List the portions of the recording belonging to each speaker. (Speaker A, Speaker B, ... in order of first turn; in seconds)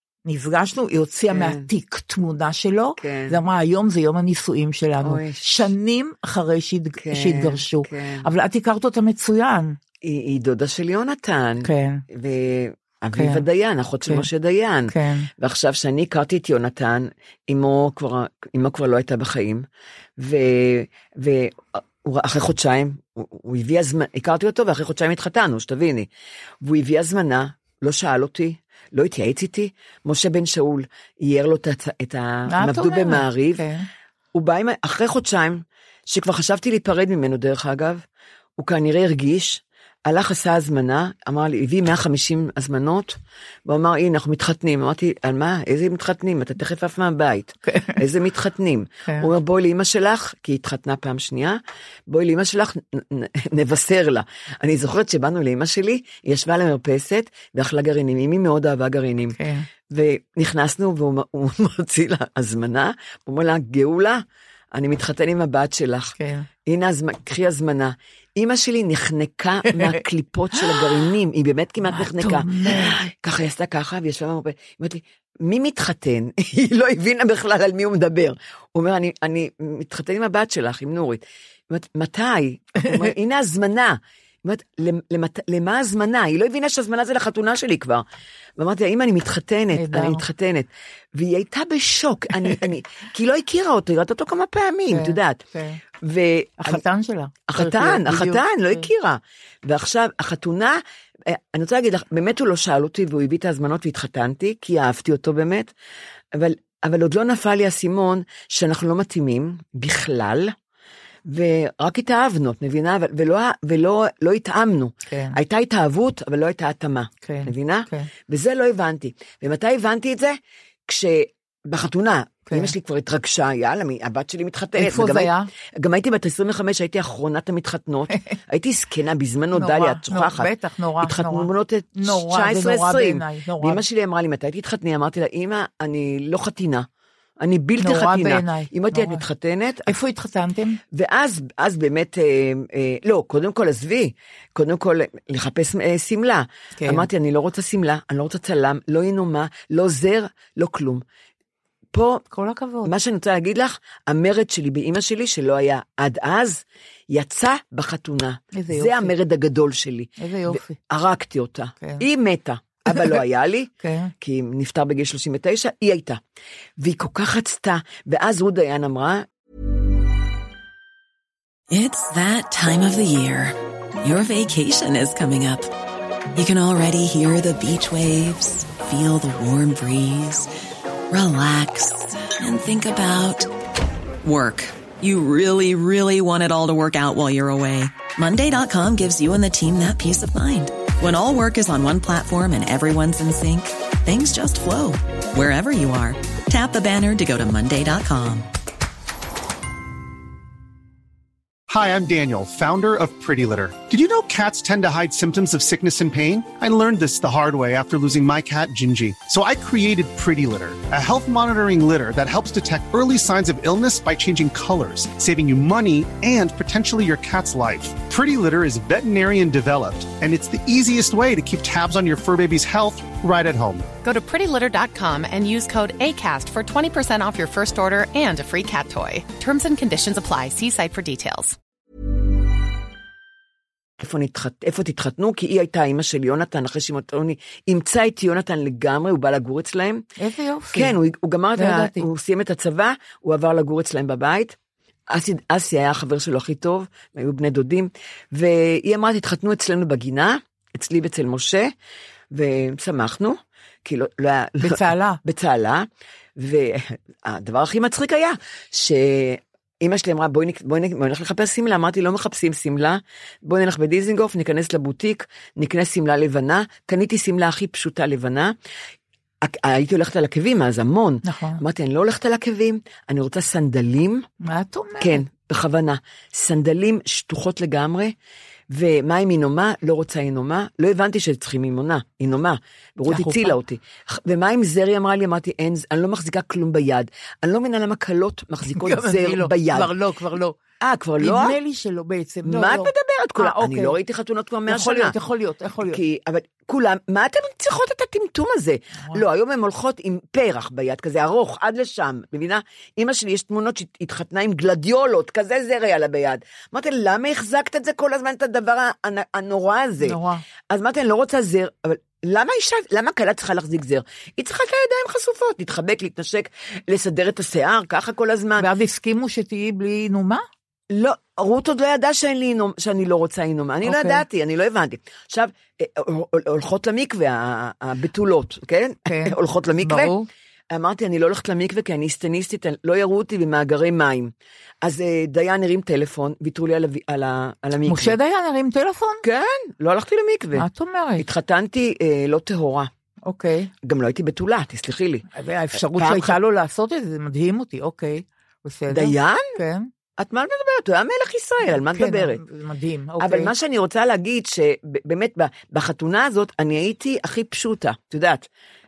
Speaker A: 0.3-9.8, 11.6-12.0, 13.1-13.4, 14.9-15.3, 32.5-33.9, 47.7-48.0, 59.4-59.7, 66.2-66.5, 70.6-71.0, 71.8-73.0, 89.7-90.2, 94.9-95.8, 96.6-98.9, 115.1-115.4, 117.2-118.1, 122.5-122.7, 124.8-125.5, 129.5-133.8, 137.8-139.2, 139.9-140.8, 146.8-147.1, 152.3-152.9, 158.5-159.1, 160.2-160.8, 162.9-163.2, 163.8-164.1, 240.2-240.9, 241.6-242.1, 254.6-255.2, 271.2-271.6, 274.4-275.2, 283.1-283.6, 288.7-290.6, 291.2-294.0, 294.7-296.0, 310.0-310.4, 318.6-320.4, 323.9-324.2, 329.1-330.3, 337.9-339.2, 340.6-341.3, 343.2-343.7, 345.3-349.9, 351.6-353.5
Speaker B: 1.3-1.7, 3.0-3.4, 5.0-5.7, 7.0-8.3, 10.0-19.6, 20.2-26.1, 26.6-33.6, 34.3-38.0, 38.6-59.4, 59.9-66.1, 66.7-88.0, 88.6-95.4, 96.0-96.8, 97.5-105.7, 106.3-110.5, 111.3-130.5, 131.0-136.9, 137.4-139.9, 140.9-151.0, 151.9-152.2, 152.8-163.7, 164.2-166.2, 166.8-169.3, 234.0-240.1, 240.7-244.6, 245.1-251.7, 252.3-268.5, 269.4-274.3, 275.0-278.1, 278.7-289.9, 290.8-291.6, 292.4-295.1, 295.8-310.2, 310.7-318.7, 320.9-330.1, 330.7-338.1, 339.2-340.6, 341.2-342.9, 343.8-345.2, 345.9-346.4, 348.9-349.5, 350.2-352.4, 353.2-358.5
Speaker C: 171.7-175.7, 176.3-180.5, 181.1-183.5, 184.2-198.5
Speaker D: 201.7-223.9
Speaker E: 224.0-231.6